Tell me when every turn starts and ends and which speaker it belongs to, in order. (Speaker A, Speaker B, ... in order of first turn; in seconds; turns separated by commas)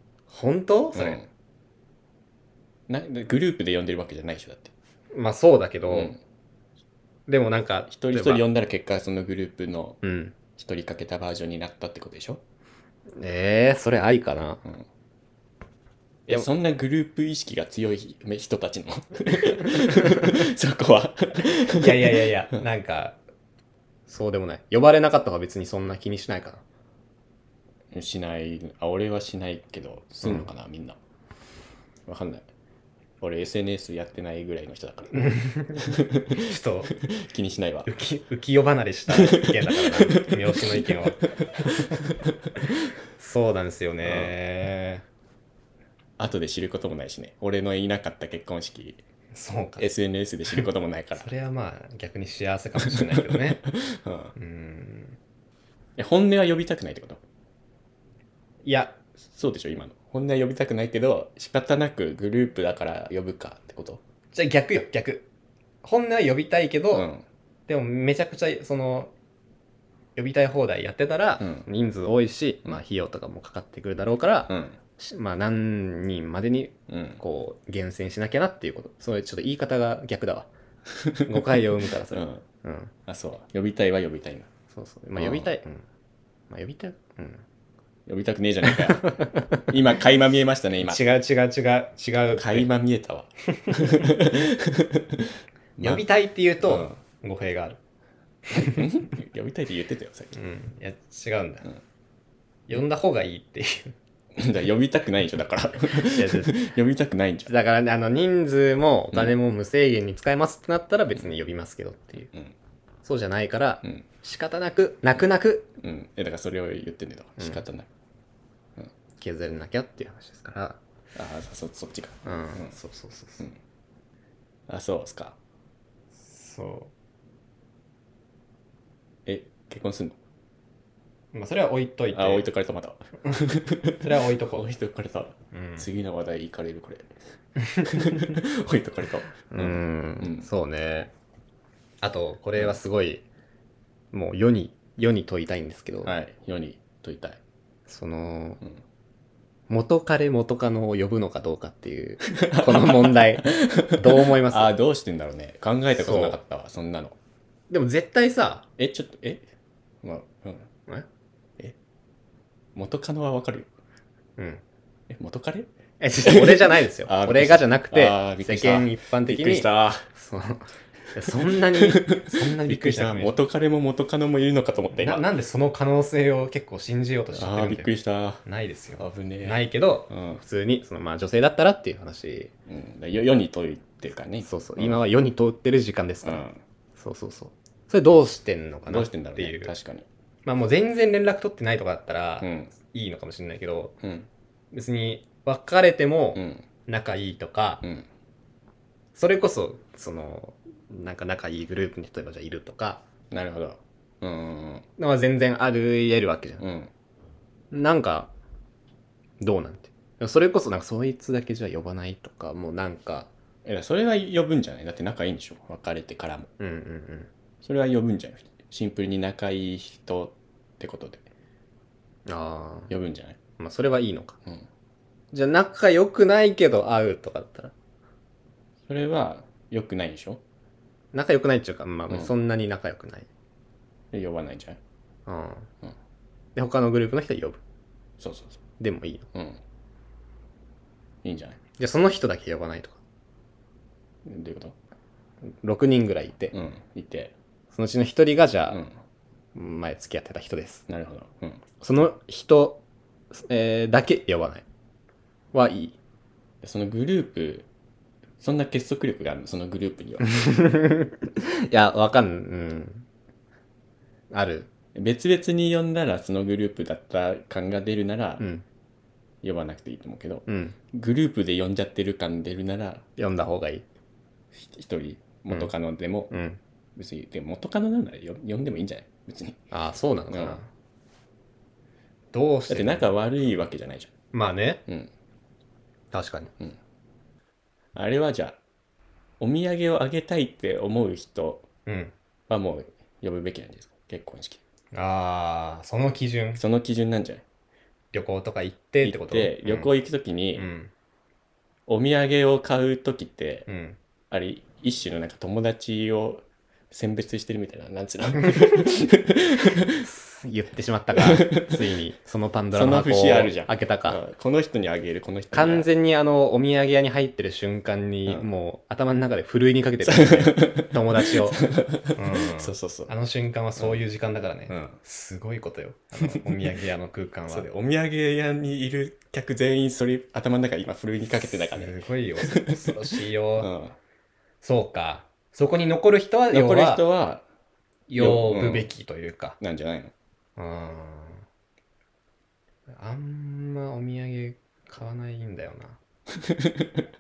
Speaker A: 0.3-1.2, Speaker B: 0.9-1.3, Speaker B: 2.9-4.7, Speaker A: 5.1-6.2, Speaker B: 5.9-6.2, Speaker A: 7.3-8.4, Speaker B: 7.9-10.0, Speaker A: 10.0-10.4, Speaker B: 10.6-12.4, Speaker A: 13.2-14.6, Speaker B: 16.3-22.6, Speaker A: 21.8-23.2, Speaker A: 24.1-26.6, Speaker B: 27.9-31.0, Speaker B: 32.1-32.5, Speaker B: 33.2-36.4, Speaker A: 35.1-36.9, Speaker B: 37.0-37.9, Speaker A: 37.9-42.0, Speaker B: 39.1-41.2, Speaker A: 43.2-45.0, Speaker B: 44.0-44.4, Speaker B: 46.2-49.0, Speaker A: 49.3-49.9, Speaker B: 49.8-51.3, Speaker A: 51.1-53.6, Speaker B: 52.8-54.3, Speaker A: 54.4-55.2, Speaker B: 56.0-57.2, Speaker A: 58.6-59.0, Speaker B: 59.2-64.0, Speaker A: 64.3-65.3, Speaker A: 65.8-67.1, Speaker B: 66.9-67.2, Speaker A: 67.7-69.1, Speaker A: 70.2-80.5, Speaker B: 71.4-71.7, Speaker B: 74.5-74.8, Speaker B: 76.9-77.2, Speaker B: 81.0-81.6, Speaker A: 81.2-82.9, Speaker B: 82.1-82.4, Speaker B: 83.1-84.5, Speaker A: 84.7-85.8, Speaker B: 85.1-85.5, Speaker A: 86.5-87.4, Speaker B: 88.1-91.0, Speaker A: 88.7-89.6, Speaker A: 90.8-92.7, Speaker B: 92.4-96.0, Speaker A: 95.8-97.8, Speaker B: 96.6-97.0, Speaker A: 98.5-98.8, Speaker B: 98.7-100.3, Speaker A: 100.3-101.7, Speaker A: 102.7-104.0, Speaker B: 104.4-107.5, Speaker A: 105.9-106.6, Speaker A: 107.5-112.3, Speaker B: 112.3-112.5, Speaker A: 113.0-115.7, Speaker B: 115.8-117.9, Speaker A: 119.2-120.8, Speaker B: 121.2-122.8, Speaker A: 122.2-123.5, Speaker B: 124.7-125.4, Speaker A: 126.2-126.9, Speaker B: 129.3-130.2, Speaker A: 131.3-132.5, Speaker B: 132.1-137.1, Speaker A: 134.0-134.7, Speaker A: 135.5-135.9, Speaker A: 137.7-138.3, Speaker B: 137.8-140.5, Speaker A: 139.5-141.1, Speaker A: 142.0-143.2, Speaker A: 144.1-146.2, Speaker B: 146.0-147.4, Speaker A: 147.9-148.6, Speaker A: 149.7-154.7, Speaker B: 152.4-157.2, Speaker A: 156.0-156.4, Speaker A: 157.7-158.7, Speaker B: 158.8-159.4, Speaker B: 160.0-160.7, Speaker B: 162.8-163.7, Speaker A: 164.4-164.6, Speaker B: 165.1-170.1, Speaker A: 166.0-173.4, Speaker B: 171.6-175.2, Speaker A: 174.9-182.5, Speaker B: 177.3-178.4, Speaker B: 179.0-180.4, Speaker B: 182.7-185.0, Speaker A: 184.4-186.4, Speaker B: 186.2-186.6, Speaker A: 187.0-189.7, Speaker B: 188.9-190.1, Speaker A: 190.4-194.0, Speaker B: 192.4-192.8, Speaker B: 194.0-194.3, Speaker A: 194.7-197.8, Speaker B: 196.4-196.7, Speaker B: 197.8-198.1, Speaker A: 199.2-203.0, Speaker B: 203.3-204.8, Speaker A: 205.0-206.6, Speaker B: 206.6-206.9, Speaker A: 207.7-208.3, Speaker A: 209.4-213.3, Speaker B: 213.7-216.5, Speaker A: 216.6-217.3, Speaker B: 217.6-221.2, Speaker A: 222.3-222.9, Speaker B: 222.9-223.4, Speaker A: 223.6-224.4, Speaker A: 225.3-227.7, Speaker B: 228.9-230.4, Speaker A: 231.1-233.3, Speaker B: 234.1-234.8, Speaker A: 235.3-235.7, Speaker A: 236.6-237.6, Speaker B: 238.2-238.6, Speaker A: 238.8-239.3, Speaker B: 239.3-239.6, Speaker B: 241.2-241.6, Speaker A: 241.8-243.0, Speaker B: 244.2-244.8, Speaker A: 245.6-246.5, Speaker B: 246.5-247.3, Speaker A: 247.7-248.8, Speaker B: 248.7-248.9, Speaker A: 249.6-250.8, Speaker B: 250.9-251.6, Speaker A: 251.8-252.8, Speaker A: 253.3-254.7, Speaker A: 255.5-256.0, Speaker B: 256.6-257.7, Speaker B: 258.4-260.2, Speaker A: 260.2-263.1, Speaker A: 264.3-264.7, Speaker B: 264.9-268.4, Speaker B: 269.4-273.0, Speaker A: 270.5-270.8, Speaker A: 273.2-273.9, Speaker B: 274.5-276.3, Speaker A: 276.3-276.6, Speaker B: 277.0-279.6, Speaker A: 279.7-280.7, Speaker B: 280.3-280.6, Speaker A: 282.3-283.1, Speaker B: 282.7-284.1, Speaker A: 284.3-284.8, Speaker A: 286.1-286.5, Speaker B: 287.9-288.6, Speaker B: 289.4-291.7, Speaker A: 291.9-292.1, Speaker B: 292.5-294.6, Speaker A: 294.9-296.6, Speaker B: 296.6-297.4, Speaker A: 298.1-299.9, Speaker B: 299.0-300.7, Speaker A: 300.6-300.9, Speaker B: 301.9-303.7, Speaker A: 303.7-304.0, Speaker B: 304.3-310.1, Speaker A: 310.0-314.2, Speaker B: 311.2-311.8, Speaker B: 312.7-315.9, Speaker A: 315.5-321.6, Speaker B: 320.0-323.1, Speaker A: 322.1-327.7, Speaker B: 324.7-325.0, Speaker B: 327.5-334.0, Speaker A: 331.3-333.7, Speaker A: 334.6-337.0, Speaker B: 336.5-337.4, Speaker A: 338.1-339.6, Speaker B: 338.2-338.9, Speaker B: 339.6-340.1, Speaker A: 340.6-341.4, Speaker A: 343.0-346.0, Speaker B: 346.4-347.0